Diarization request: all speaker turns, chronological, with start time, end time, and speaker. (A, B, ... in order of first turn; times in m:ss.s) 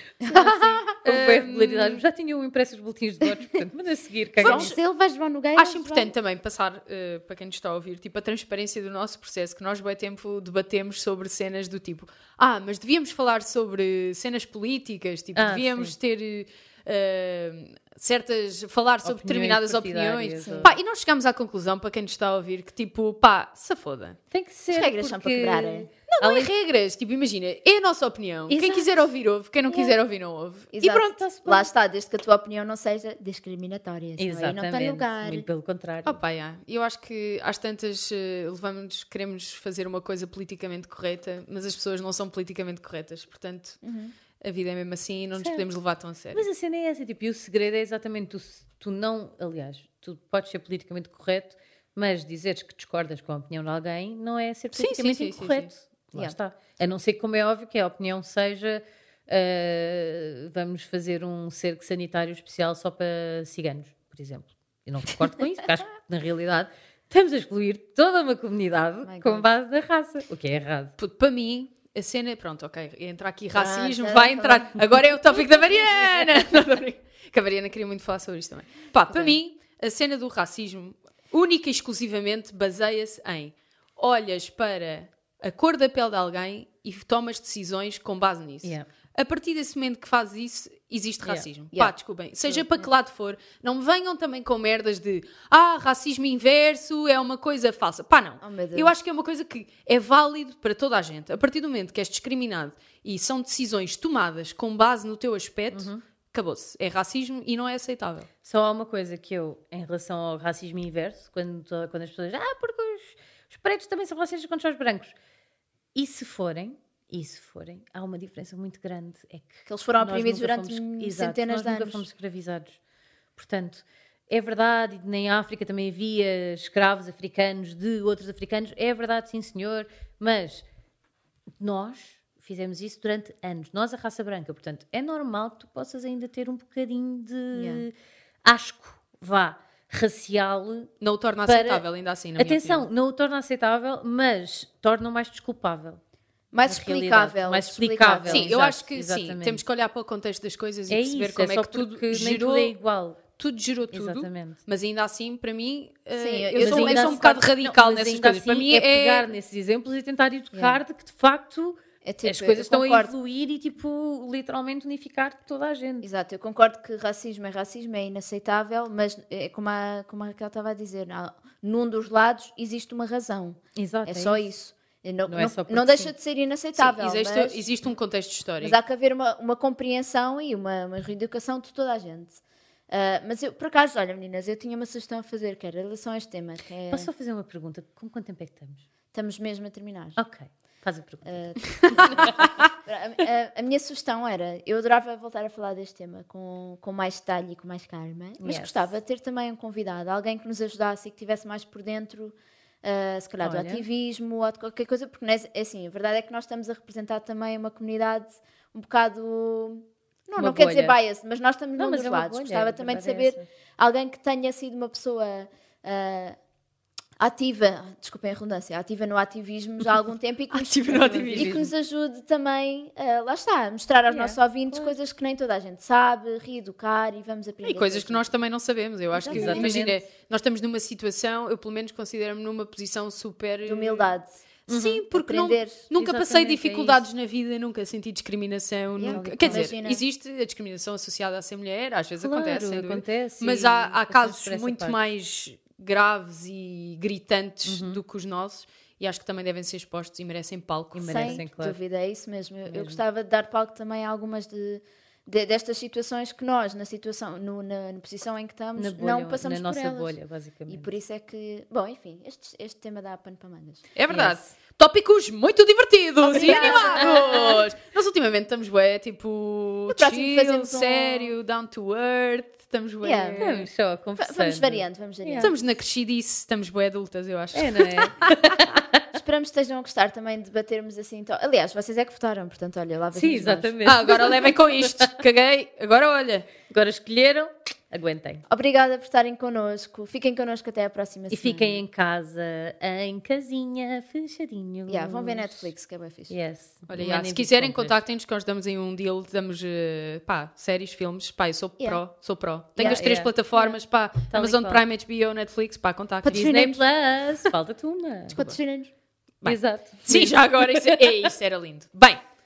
0:00.2-0:01.0 A
0:00.2-0:04.7 B
0:01.0-0:02.0 C
0:04.4-0:04.8 C
0:04.4-0:06.1 A
0:05.6-0:24.2 C
0:15.3-0:15.9 B
0:19.0-0:20.8 B
0:20.4-0:20.7 A
0:24.3-0:26.5 B
0:24.7-0:25.9 A
0:26.1-0:31.3 C
0:28.5-0:28.9 B
0:29.7-0:29.9 B
0:30.7-0:35.4 A
0:31.2-0:31.7 B
0:34.2-0:36.2 B
0:36.0-0:43.8 C
0:43.8-0:44.1 A
0:44.4-0:46.4 C
0:45.4-0:45.6 B
0:46.3-1:10.9 B
0:54.7-0:55.7 C
1:09.0-1:09.5 A
1:11.0-1:48.3 C
1:13.5-1:14.8 A
1:32.4-1:32.9 A
1:38.4-1:38.9 A
1:45.7-1:46.0 B
1:48.4-1:55.1 B
1:55.9-2:02.8 B
1:59.7-2:02.0 A
2:03.3-2:10.6 B
2:11.6-2:20.9 B
2:17.5-2:17.9 A
2:21.0-2:22.9 C
2:21.4-2:21.8 B
2:22.4-2:26.0 B
2:26.5-2:28.5 A
2:26.6-2:29.6 B
2:28.2-2:32.7 C
2:30.9-2:33.2 B
2:33.4-2:39.3 C
2:33.9-2:34.6 B
2:36.2-2:37.4 A
2:36.6-2:46.0 B
2:40.5-2:40.8 A
2:42.0-2:43.1 A
2:46.0-2:57.6 A
2:53.7-2:54.5 B
2:55.3-2:56.1 B
2:56.8-2:58.8 C
2:58.6-3:07.1 A
3:06.9-3:08.8 B
3:09.1-3:10.2 A
3:10.2-3:12.4 B
3:11.2-3:36.4 A
3:18.4-3:18.9 B
3:23.4-3:23.8 B
3:30.4-3:31.0 B
3:31.8-3:33.4 B
3:37.2-3:48.2 A
3:40.5-3:41.6 C
3:40.9-3:41.7 B
3:44.1-3:45.0 B
3:47.6-3:54.1 C
3:49.1-3:49.8 A
3:49.3-3:50.0 B
3:53.6-3:54.3 A
3:54.7-4:11.4 C
3:54.7-3:55.0 B
3:55.1-3:55.8 A
3:55.9-3:57.0 B
3:59.0-4:00.0 A
3:59.0-3:59.7 B
4:02.2-4:05.0 B
4:07.6-4:08.0 B
4:10.9-4:11.8 B
4:11.1-4:20.2 A
4:12.7-4:13.0 B
4:18.8-4:20.9 B
4:20.7-4:23.8 A
4:23.9-4:33.7 C
4:24.1-4:24.4 B
4:26.2-4:27.6 A
4:26.3-4:27.2 B
4:29.9-4:31.3 A
4:33.0-4:33.4 A
4:33.4-4:35.5 B
4:34.2-4:35.6 A
4:35.4-4:38.4 C
4:37.5-4:39.0 B
4:39.1-4:43.8 A
4:43.1-4:45.1 B
4:43.8-4:46.5 C
4:46.7-4:48.4 B
4:48.5-4:51.8 A
4:51.3-4:55.7 B
4:54.9-4:56.3 A
4:56.3-4:57.9 B
4:56.9-5:06.6 C
5:02.8-5:03.1 A
5:02.8-5:03.8 B
5:04.3-5:04.8 B
5:06.2-5:06.8 A
5:06.3-5:08.4 B
5:08.3-5:08.9 A
5:09.4-5:12.2 C
5:09.4-5:11.3 B